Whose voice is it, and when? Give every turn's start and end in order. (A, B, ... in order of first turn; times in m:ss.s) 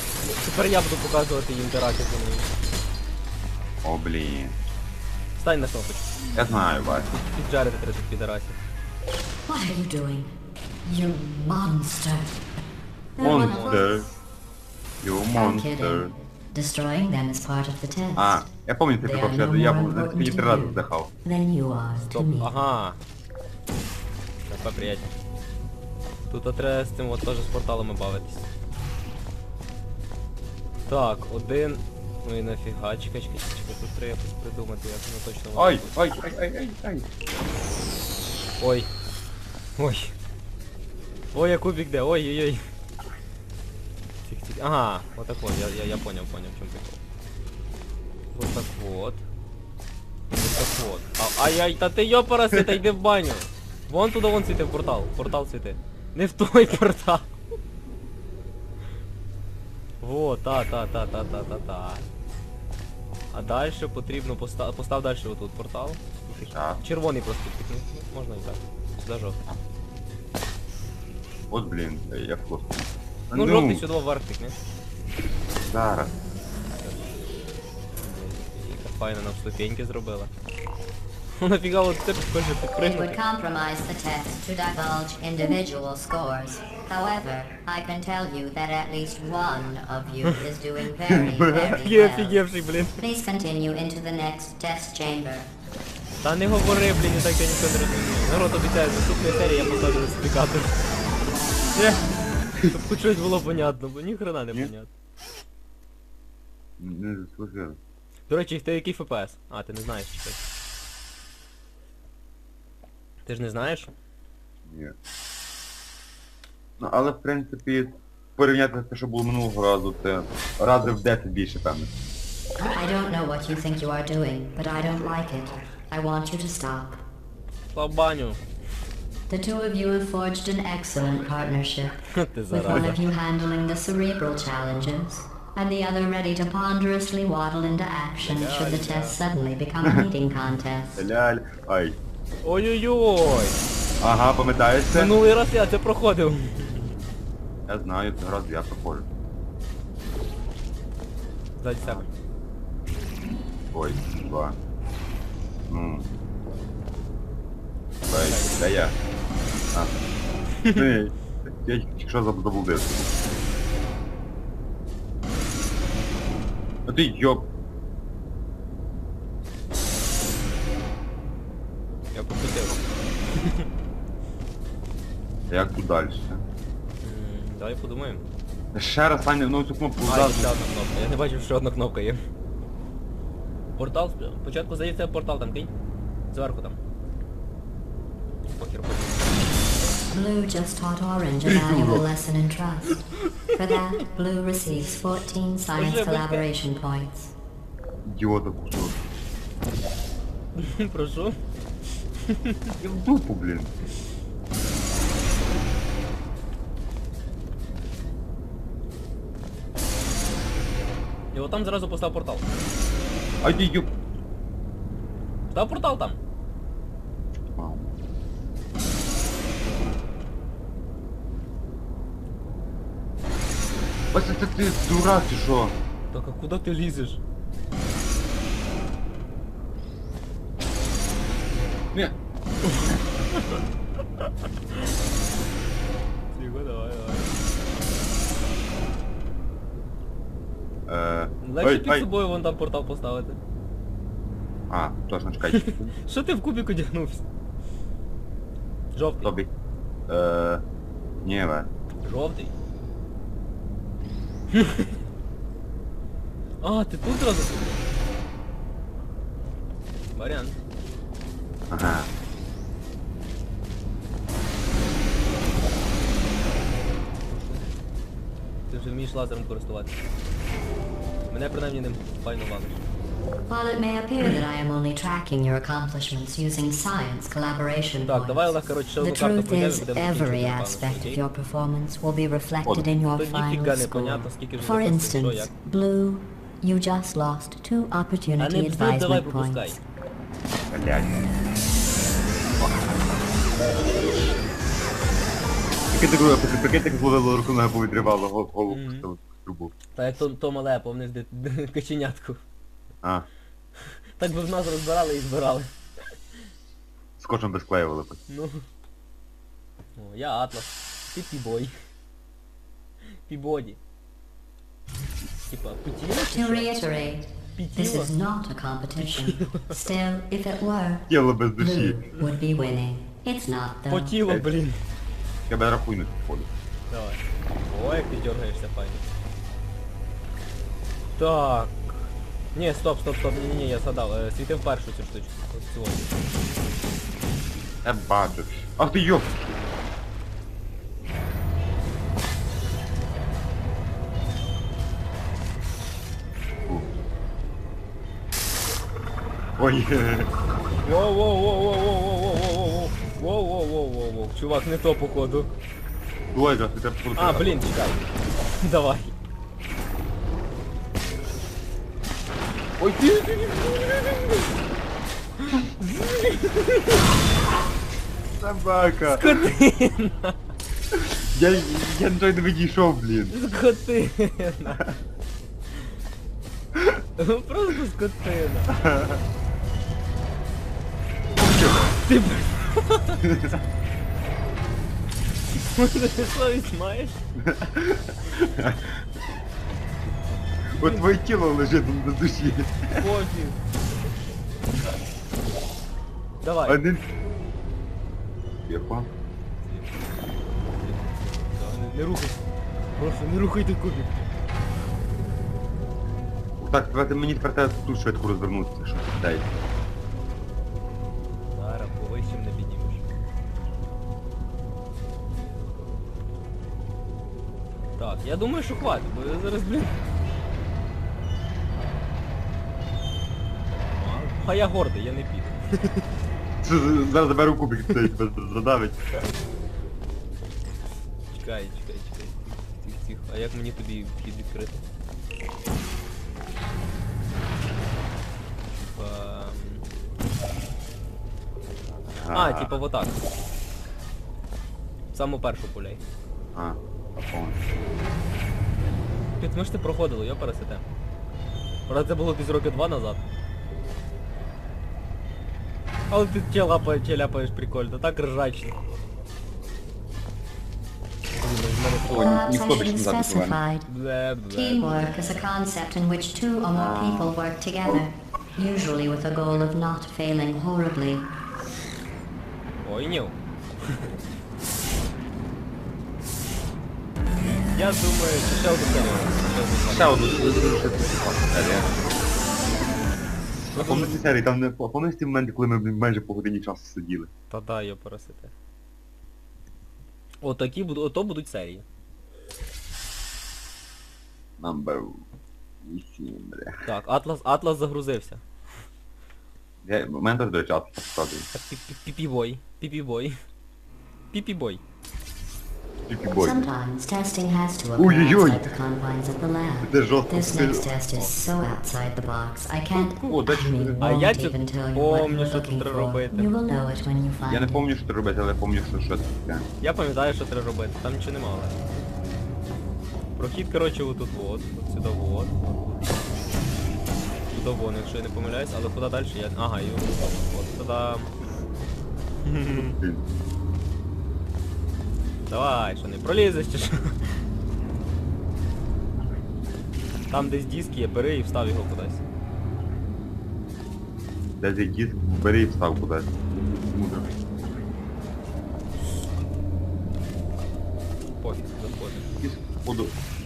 0:00.2-0:02.5 A
0:03.8-0:04.6 B
0:05.4-0:06.1 A
0:06.4-0:07.1 B
0:07.1-0:08.6 A
0:09.5-0:10.3 C
0:10.8-0:12.4 C
0:13.2-0:14.2 C
0:13.2-0:13.9 A
0:13.2-0:14.1 B
0:15.0-0:16.1 B
0:15.4-0:18.5 C
0:18.2-0:21.1 B
0:19.0-0:22.5 C
0:22.0-0:23.0 A
0:24.4-0:25.1 A
0:26.3-0:28.5 A
0:30.9-0:35.9 A
0:35.6-0:37.1 B
0:38.6-0:38.9 A
0:39.8-0:40.1 A
0:41.3-0:42.6 A
0:44.2-0:47.0 A
0:48.3-0:49.2 A
0:50.3-0:57.3 A
1:00.0-1:02.1 A
1:03.3-1:09.4 A
1:06.5-1:06.8 B
1:11.5-1:13.8 B
1:13.3-1:14.6 A
1:15.6-1:16.2 B
1:16.8-1:17.0 A
1:18.0-1:20.3 A
1:21.4-1:23.2 A
1:22.8-1:32.4 C
1:31.1-1:31.8 B
1:31.5-1:33.0 A
1:33.0-1:35.5 C
1:36.2-1:40.8 A
1:41.8-1:42.0 B
1:42.7-1:44.9 A
1:46.8-1:47.8 B
1:48.3-1:50.4 A
1:53.3-1:53.9 A
1:54.7-1:55.0 B
1:56.8-2:01.9 B
2:02.7-2:07.0 C
2:07.7-2:08.4 A
2:09.3-2:12.0 C
2:12.1-2:13.0 A
2:12.5-2:21.0 C
2:18.2-2:19.2 A
2:21.0-2:22.0 B
2:22.4-2:23.6 A
2:24.0-2:25.2 B
2:24.9-2:27.0 A
2:27.7-2:29.1 B
2:31.6-2:32.1 A
2:33.7-2:34.6 B
2:35.7-2:36.1 B
2:38.1-2:39.0 B
2:38.1-2:38.8 A
2:40.7-2:43.1 B
2:46.9-2:47.5 B
2:52.1-2:53.7 A
2:55.5-2:56.4 B
2:57.0-2:58.2 A
2:58.7-3:00.5 B
3:00.1-3:02.2 A
3:03.8-3:05.7 A
3:06.3-3:06.8 A
3:08.5-3:09.3 A
3:10.1-3:17.3 C
3:11.4-3:12.1 B
3:15.8-3:16.5 A
3:18.0-3:19.0 B
3:20.6-3:21.4 A
3:22.3-3:22.7 A
3:22.8-3:23.7 B
3:31.3-3:32.5 A
3:33.4-3:33.9 B
3:35.5-3:36.2 A
3:37.6-3:37.9 B
3:44.1-3:45.8 B
3:46.1-3:47.2 A
3:52.6-3:53.6 A
3:56.4-3:57.4 A
4:00.9-4:02.1 B
4:01.4-4:03.4 A
4:04.7-4:06.0 B
4:05.5-4:07.2 A
4:09.0-4:09.3 A
4:09.2-4:09.5 B
4:10.1-4:10.6 B
4:11.2-4:11.7 B
4:12.0-4:12.6 A
4:14.5-4:15.0 A
4:16.6-4:17.9 A
4:20.1-4:20.6 A
4:21.7-4:22.1 B
4:27.3-4:27.7 A
4:28.7-4:30.0 A
4:31.3-4:32.8 A
4:33.5-4:49.8 C
4:38.1-4:41.2 A
4:43.1-4:45.5 A
4:48.4-4:49.8 A
4:50.7-4:51.3 B
4:52.6-4:52.9 B
4:55.9-4:59.7 B
4:58.7-4:59.1 A
5:00.0-5:02.4 A
5:03.9-5:05.7 A
5:07.2-5:08.2 B
5:08.3-5:08.6 A
5:10.0-5:11.7 A
5:13.3-5:13.8 A
5:15.5-5:16.8 A
5:16.3-5:24.2 C
5:17.6-5:18.1 A
5:19.0-5:19.8 A
5:21.1-5:22.0 B
5:23.9-5:24.8 A
5:25.5-5:26.5 B
5:26.9-5:29.1 A
5:31.2-5:32.0 A
5:32.5-5:36.1 A
5:37.8-5:39.6 B
5:49.6-5:50.3 B
5:50.8-5:55.5 A
5:56.3-5:57.6 B
5:57.2-5:58.1 A
5:58.6-5:59.1 A
6:02.8-6:03.2 B
6:03.0-6:04.4 A
6:05.4-6:07.0 A
6:08.4-6:09.4 B
6:09.1-6:10.4 A
6:10.9-6:13.4 B
6:13.3-6:14.8 A
6:16.8-6:17.0 B
6:17.2-6:18.8 A
6:18.7-6:19.2 B
6:21.4-6:22.0 B
6:22.0-6:23.2 A
6:23.2-6:23.6 B
6:25.6-6:27.2 A
6:27.4-6:29.1 B
6:30.8-6:33.1 B
6:30.8-6:31.1 A
6:32.9-6:33.6 A
6:36.4-6:36.8 A
6:36.6-6:37.1 B
6:38.6-6:39.1 B
6:39.7-6:39.9 A
6:40.6-6:42.4 A
6:43.0-6:44.3 A
6:46.6-6:49.5 B
6:51.5-6:53.0 A
6:58.0-7:00.0 A
7:04.0-7:06.0 A
7:06.6-7:09.0 B
7:11.3-7:14.8 A
7:18.8-7:19.8 A
7:22.1-7:22.7 B
7:22.3-7:23.2 A
7:25.1-7:26.0 A
7:26.6-7:27.6 B
7:29.4-7:30.8 A
7:31.9-7:33.2 A
7:36.1-7:38.8 A
7:41.4-7:42.4 A
7:42.1-7:43.6 B
7:42.1-7:43.9 C
7:43.9-7:45.2 A
7:44.5-7:51.3 C
7:46.7-7:47.4 B
7:52.8-7:54.1 A
7:57.4-8:00.7 A
7:59.9-8:01.9 B
8:03.7-8:04.2 A
8:03.8-8:07.3 B
8:07.5-8:08.5 A
8:10.4-8:11.8 A
8:14.6-8:15.2 B
8:15.8-8:16.8 B
8:16.8-8:18.4 A
8:19.8-8:21.5 B
8:21.5-8:23.4 A
8:24.3-8:24.8 A
8:26.1-8:26.7 B
8:26.4-8:37.9 C
8:28.0-8:28.6 B
8:29.8-8:30.9 B
8:33.0-8:33.4 A
8:33.2-8:34.0 B
8:34.0-8:36.5 A
8:37.4-8:39.7 B
8:39.8-8:41.8 A
8:43.4-8:45.9 A
8:47.5-8:51.3 A
8:52.4-8:53.0 A
8:52.7-8:53.2 B
8:55.5-8:57.3 A
9:00.3-9:02.2 A
9:04.6-9:07.3 B
9:11.4-9:12.3 A
9:12.4-9:13.3 B